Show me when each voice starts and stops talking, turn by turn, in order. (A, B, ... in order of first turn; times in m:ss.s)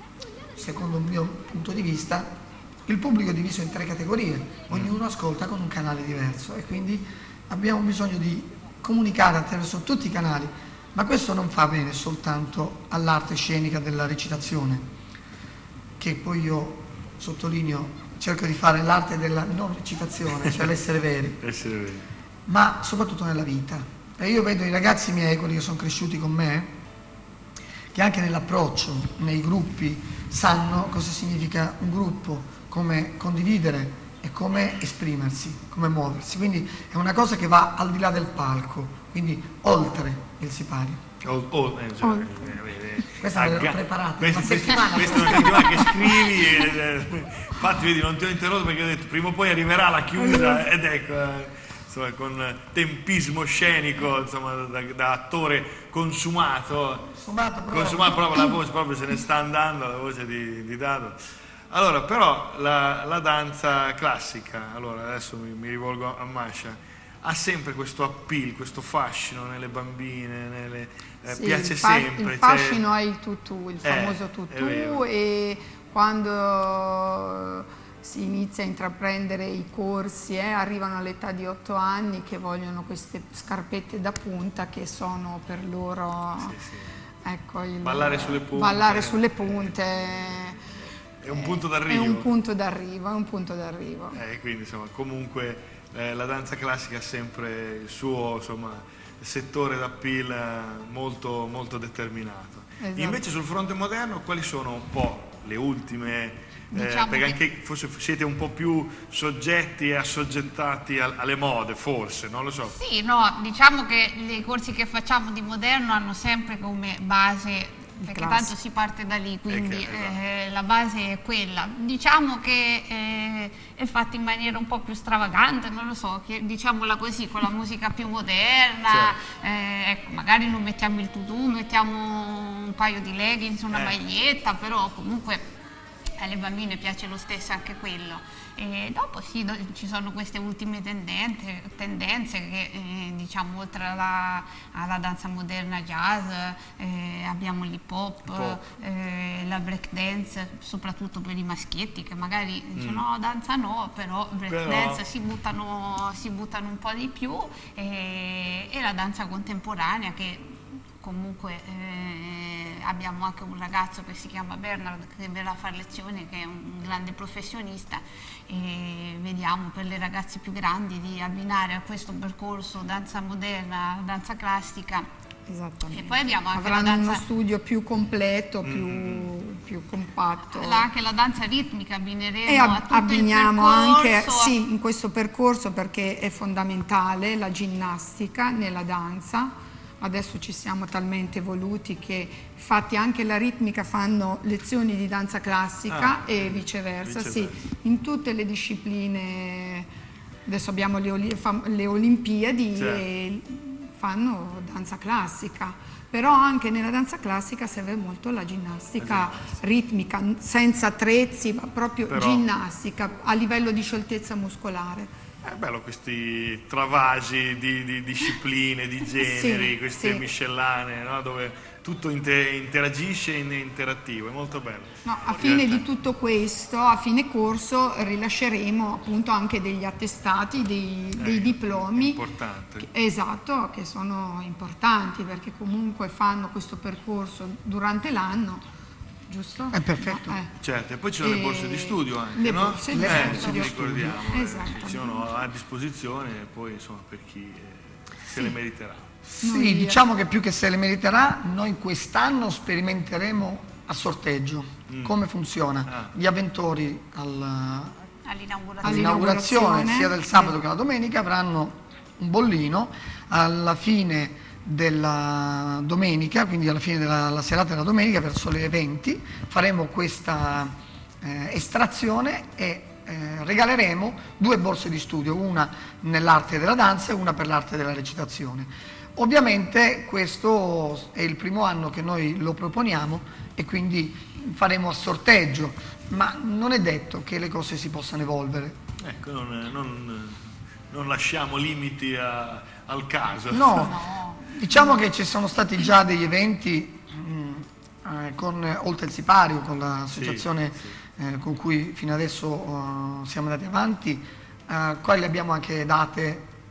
0:00.6-0:14.9 A
0:04.7-0:04.9 B
0:16.0-0:21.4 A
0:21.4-0:22.1 B
0:22.5-0:26.7 A
0:27.9-0:41.0 A
0:41.2-0:57.1 B
0:42.0-0:42.3 C
0:43.2-0:46.0 A
0:45.3-0:45.9 C
0:50.2-0:50.7 C
0:57.1-0:58.4 A
0:57.7-1:01.2 B
1:01.7-1:12.8 B
1:11.3-1:26.6 C
1:13.8-1:15.0 B
1:26.4-1:27.0 B
1:27.2-1:30.6 C
1:27.8-1:30.4 B
1:31.2-1:32.3 B
1:31.3-1:34.2 C
1:34.1-1:52.8 B
1:42.8-1:43.2 C
1:46.7-1:47.4 D
1:52.6-2:15.4 D
1:58.0-1:58.5 C
1:59.5-2:00.2 B
2:08.9-2:09.2 B
2:16.2-2:55.1 D
2:28.3-2:28.6 B
2:32.8-2:33.0 B
2:34.5-2:35.0 B
2:55.5-3:00.9 C
2:55.9-2:57.2 D
2:58.6-2:59.3 B
3:00.5-3:04.6 D
3:02.5-3:19.9 C
3:15.9-3:17.6 B
3:20.4-3:35.2 C
3:22.8-3:23.0 B
3:29.0-3:29.6 B
3:32.1-3:32.4 B
3:35.4-3:45.8 B
3:39.2-3:40.2 C
3:45.0-3:52.2 C
3:51.2-3:52.9 B
3:52.8-3:58.7 C
3:59.3-4:00.5 C
3:59.7-4:00.4 A
4:00.6-4:09.1 B
4:01.2-4:05.4 C
4:02.9-4:04.2 A
4:09.3-4:18.0 A
4:09.4-4:10.0 C
4:14.9-4:15.2 B
4:15.9-4:16.1 B
4:18.2-4:19.3 D
4:18.8-4:20.6 C
4:18.8-4:48.8 A
4:49.0-4:54.0 B
4:53.5-5:06.5 A
4:53.9-4:54.9 C
5:00.1-5:01.0 B